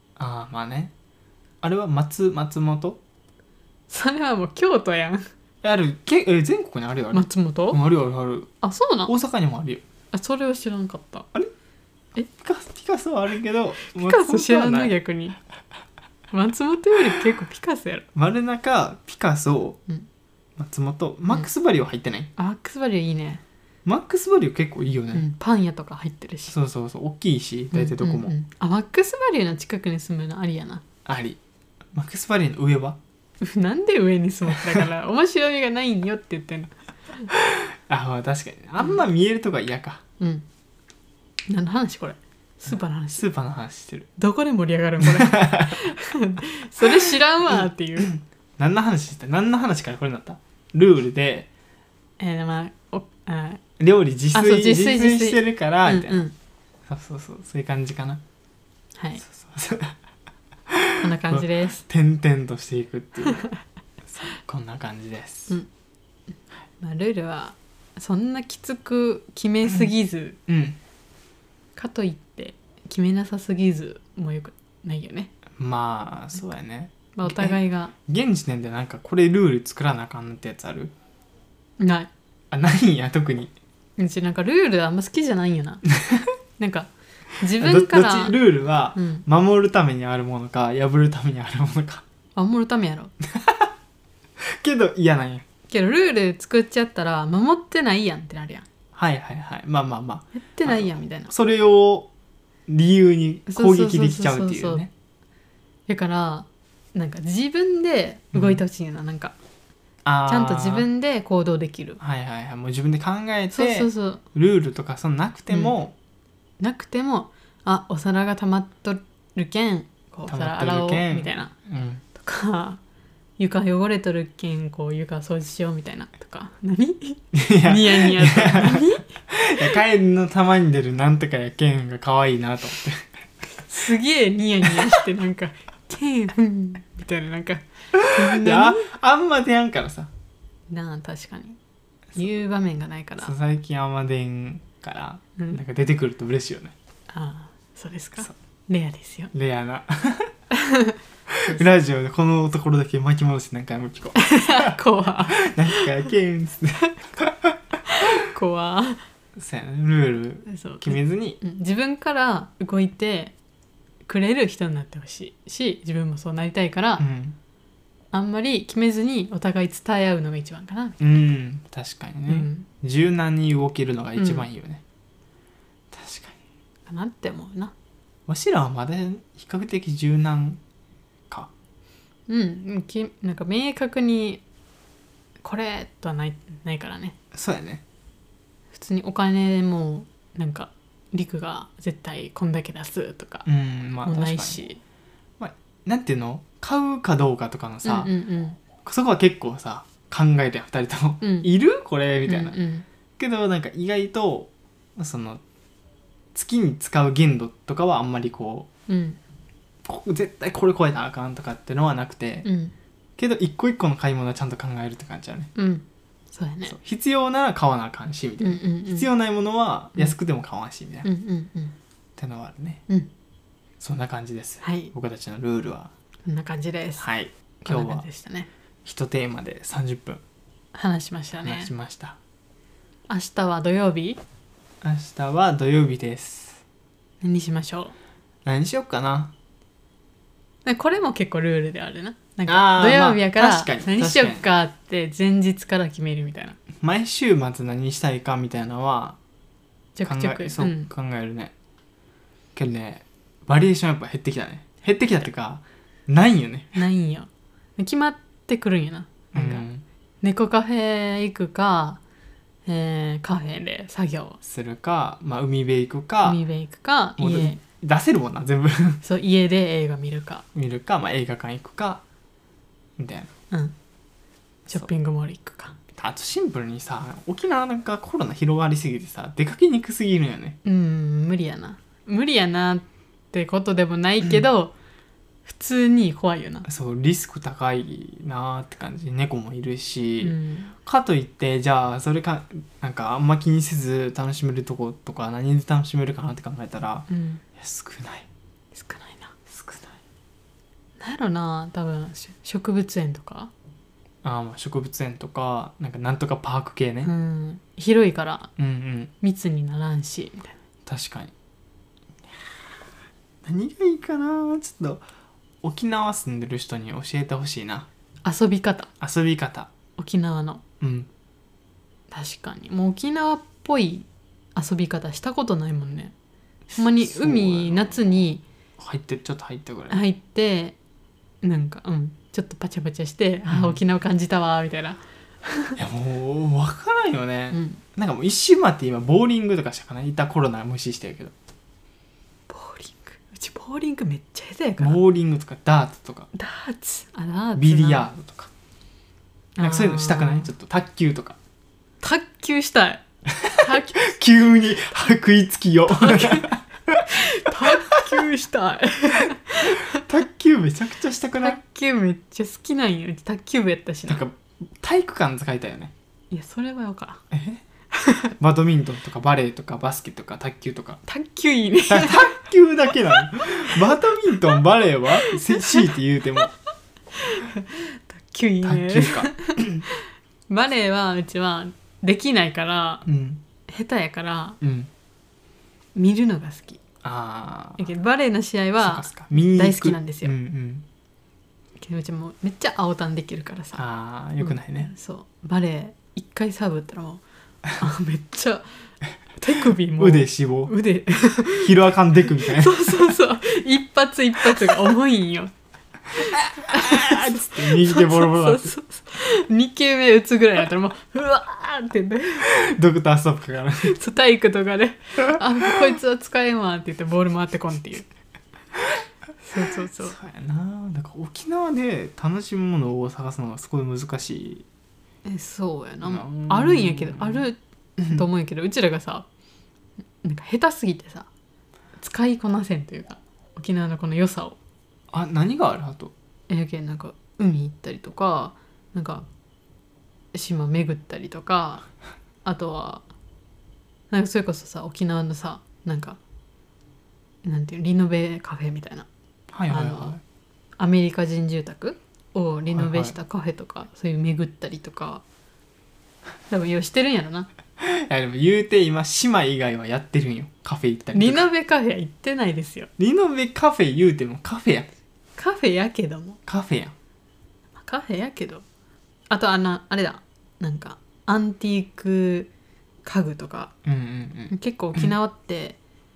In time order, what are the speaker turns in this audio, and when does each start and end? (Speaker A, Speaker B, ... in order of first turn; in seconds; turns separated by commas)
Speaker A: 0.2-0.9, Speaker A: 1.6-3.0, Speaker B: 3.9-5.2, Speaker A: 5.6-8.5, Speaker B: 7.1-7.8, Speaker B: 8.6-9.1, Speaker A: 9.1-9.8, Speaker B: 10.1-11.3, Speaker A: 12.3-14.9, Speaker B: 13.8-15.4, Speaker B: 16.3-18.1, Speaker A: 18.1-19.8, Speaker A: 20.6-22.3, Speaker B: 22.4-23.4, Speaker A: 23.8-25.2, Speaker B: 25.1-26.5, Speaker A: 26.5-28.3, Speaker B: 27.7-30.8, Speaker A: 31.0-31.4, Speaker A: 31.9-33.0, Speaker B: 33.4-37.3, Speaker A: 37.3-40.0, Speaker B: 40.2-40.5, Speaker B: 41.5-43.2, Speaker A: 42.7-44.1, Speaker B: 44.2-48.1, Speaker A: 45.0-45.9, Speaker A: 46.9-51.5, Speaker B: 52.2-53.6, Speaker A: 53.8-56.2, Speaker B: 54.3-56.3, Speaker A: 56.9-58.2, Speaker A: 59.2-60.0, Speaker A: 60.7-63.5, Speaker B: 61.0-61.8, Speaker A: 64.1-65.6, Speaker B: 66.8-70.4, Speaker A: 70.5-70.8, Speaker B: 71.8-75.3, Speaker A: 75.6-80.9, Speaker B: 77.2-77.9, Speaker B: 81.8-82.1, Speaker A: 82.5-83.5, Speaker B: 84.0-85.8, Speaker A: 85.9-86.3, Speaker B: 86.6-88.4, Speaker A: 87.5-92.0, Speaker B: 88.9-89.2, Speaker B: 92.3-93.1, Speaker A: 93.2-93.7, Speaker A: 94.5-95.4, Speaker B: 95.7-98.7, Speaker A: 98.9-102.1, Speaker B: 100.4-101.3, Speaker A: 102.7-104.9, Speaker B: 103.5-104.8, Speaker B: 105.9-109.3, Speaker A: 108.3-108.6, Speaker A: 110.0-110.9, Speaker B: 110.3-112.0, Speaker A: 112.0-115.9, Speaker B: 113.5-114.2, Speaker B: 116.6-121.5, Speaker A: 120.3-122.0, Speaker B: 122.2-122.8, Speaker B: 123.4-129.1, Speaker A: 127.3-133.2, Speaker B: 133.7-138.9, Speaker A: 137.9-140.1, Speaker B: 140.7-141.6, Speaker B: 142.2-143.3, Speaker A: 143.2-146.7, Speaker B: 147.1-149.3, Speaker A: 149.3-150.3, Speaker B: 150.5-151.7, Speaker A: 151.3-157.6, Speaker B: 154.2-155.9, Speaker B: 157.8-159.0, Speaker A: 159.4-161.4, Speaker B: 160.5-163.3, Speaker B: 164.1-167.0, Speaker A: 167.0-167.3, Speaker B: 168.1-171.0, Speaker A: 171.0-174.8, Speaker B: 172.3-172.7, Speaker B: 174.2-174.4, Speaker A: 175.9-176.3, Speaker B: 176.8-177.7, Speaker A: 178.3-180.6, Speaker B: 182.3-184.4, Speaker B: 185.4-187.2, Speaker A: 187.3-187.8, Speaker B: 188.7-193.4, Speaker A: 193.4-194.6, Speaker B: 194.0-194.8, Speaker A: 195.4-198.1, Speaker B: 197.8-198.6, Speaker A: 198.8-202.6, Speaker B: 201.2-201.5, Speaker B: 202.2-202.8, Speaker A: 203.2-205.4, Speaker A: 206.3-208.7, Speaker B: 208.9-209.2, Speaker A: 209.8-212.5, Speaker B: 212.4-212.7, Speaker A: 213.2-215.5, Speaker B: 215.5-216.8, Speaker A: 216.7-221.1, Speaker B: 218.4-219.1, Speaker B: 221.0-221.7, Speaker A: 222.2-222.8, Speaker A: 223.8-225.9, Speaker B: 224.6-224.9, Speaker B: 226.2-227.1, Speaker A: 227.0-228.0, Speaker B: 227.6-228.5, Speaker A: 228.8-230.2, Speaker B: 230.7-231.7, Speaker A: 231.4-232.2, Speaker B: 233.1-234.2, Speaker A: 234.8-236.6, Speaker B: 237.2-237.9, Speaker A: 238.4-239.3, Speaker B: 240.6-246.6, Speaker A: 242.5-244.4, Speaker A: 246.8-249.2, Speaker B: 249.9-250.9, Speaker A: 250.1-251.5, Speaker A: 252.6-256.8, Speaker B: 256.7-259.6, Speaker A: 259.3-259.8, Speaker B: 260.2-262.0, Speaker B: 262.6-264.4, Speaker A: 264.4-266.4, Speaker B: 266.2-267.6, Speaker A: 267.2-269.0, Speaker B: 269.0-270.4, Speaker A: 270.5-272.0, Speaker A: 273.0-273.3, Speaker B: 274.7-275.8, Speaker A: 275.9-280.6, Speaker B: 280.6-284.7, Speaker B: 285.4-286.6, Speaker A: 286.6-298.3, Speaker B: 290.2-290.7, Speaker B: 297.1-297.4, Speaker B: 298.7-299.3, Speaker A: 299.5-300.0, Speaker B: 301.0-303.5, Speaker A: 304.2-307.1, Speaker B: 307.0-308.5, Speaker A: 308.6-309.1, Speaker B: 309.2-310.6, Speaker A: 310.9-311.3, Speaker A: 313.4-315.0, Speaker A: 315.6-317.9, Speaker B: 318.2-318.9, Speaker A: 319.0-319.7, Speaker B: 320.0-320.6, Speaker A: 320.8-321.1, Speaker B: 322.1-326.1, Speaker A: 326.7-327.9, Speaker B: 326.7-328.4, Speaker A: 328.8-330.0, Speaker B: 329.9-330.8, Speaker B: 331.4-335.8, Speaker A: 333.5-333.8, Speaker A: 335.8-341.3, Speaker B: 337.5-337.8, Speaker B: 342.5-345.0, Speaker A: 344.8-346.3, Speaker B: 346.3-348.1, Speaker A: 347.5-348.5, Speaker B: 349.6-350.5, Speaker A: 349.6-351.4, Speaker B: 352.0-354.1, Speaker A: 353.4-358.1, Speaker B: 355.9-356.5, Speaker B: 357.1-360.0, Speaker A: 359.6-361.6, Speaker B: 361.4-364.2, Speaker A: 364.1-365.9, Speaker B: 366.3-367.2, Speaker A: 367.3-367.6, Speaker B: 367.9-368.3, Speaker A: 368.3-371.0, Speaker B: 371.1-372.4, Speaker A: 371.9-376.5, Speaker B: 373.1-373.8, Speaker B: 375.1-375.9, Speaker B: 377.1-383.0, Speaker A: 378.6-379.9, Speaker A: 383.1-383.4, Speaker B: 383.7-384.6, Speaker A: 384.6-384.9, Speaker B: 385.9-386.8, Speaker A: 387.0-387.9, Speaker B: 387.8-390.3, Speaker A: 388.8-390.8, Speaker B: 391.8-393.8, Speaker A: 393.8-394.9, Speaker B: 394.4-397.2, Speaker B: 397.8-398.7, Speaker B: 399.4-405.5, Speaker A: 399.9-400.7, Speaker A: 401.5-403.1, Speaker A: 406.1-408.7, Speaker B: 406.7-412.5, Speaker A: 412.4-414.0, Speaker B: 413.8-418.1, Speaker B: 419.4-420.1, Speaker A: 420.0-424.6, Speaker B: 425.2-429.2, Speaker A: 426.0-427.5, Speaker A: 428.0-428.2, Speaker B: 430.2-431.3, Speaker B: 432.0-434.6, Speaker A: 435.1-436.1, Speaker B: 436.5-439.2, Speaker B: 440.3-441.9, Speaker B: 442.4-443.0, Speaker B: 444.1-446.2, Speaker B: 447.4-449.1, Speaker A: 449.5-450.2, Speaker B: 449.7-450.2, Speaker B: 450.8-455.2, Speaker A: 452.7-453.1, Speaker B: 456.5-457.5, Speaker A: 457.8-461.5, Speaker B: 461.1-462.9, Speaker A: 463.0-464.9, Speaker B: 465.4-466.4, Speaker A: 466.5-466.9, Speaker B: 467.8-468.6, Speaker B: 469.3-472.5, Speaker B: 473.0-473.7, Speaker A: 473.8-475.1, Speaker B: 474.5-475.8